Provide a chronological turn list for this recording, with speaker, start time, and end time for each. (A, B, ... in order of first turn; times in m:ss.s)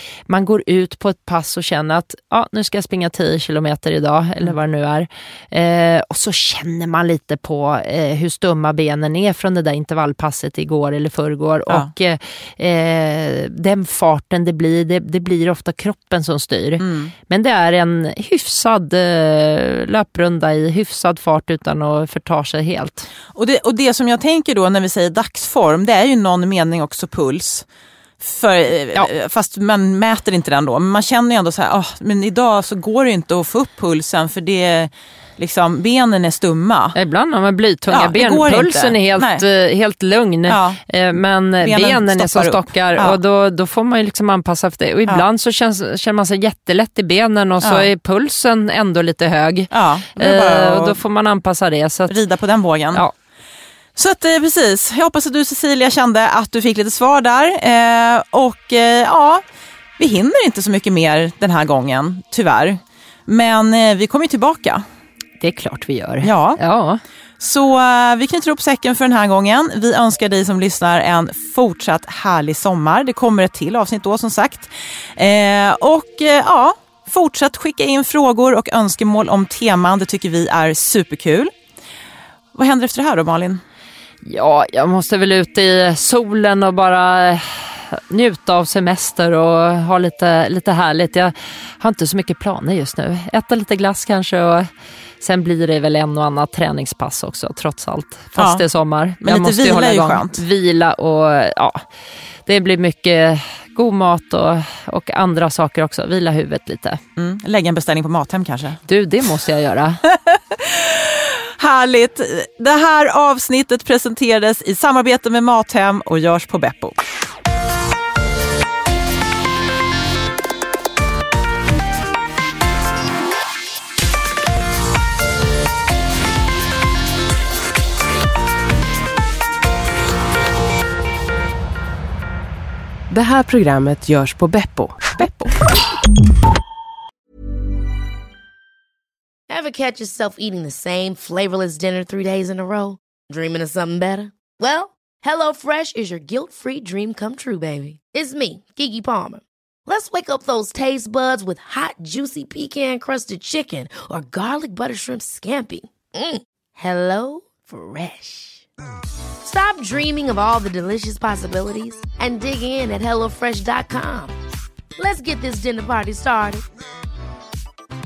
0:00.3-0:23.1 A
0:16.8-0:17.1 B
0:23.3-0:27.6 B
0:28.2-0:36.9 B
0:36.9-0:52.2 A
0:37.9-0:39.4 B
0:40.5-0:40.8 B
0:41.6-0:43.2 B
0:47.6-0:47.9 B
0:49.7-0:51.0 B
0:52.1-0:53.0 B
0:54.0-0:59.4 B
1:00.0-1:04.8 B
1:05.4-1:07.0 A
1:06.2-1:06.6 B
1:07.4-1:21.5 B
1:22.5-1:23.6 B
1:24.2-1:34.7 A
1:35.2-1:41.8 A
1:38.4-1:38.6 B
1:39.2-1:40.4 B
1:42.4-1:47.0 A
1:47.2-1:48.8 B
1:48.9-1:50.0 A
1:50.0-1:57.0 B
2:13.1-2:15.7 C
2:19.5-2:38.6 D
2:39.4-2:44.3 D
2:45.0-2:46.6 D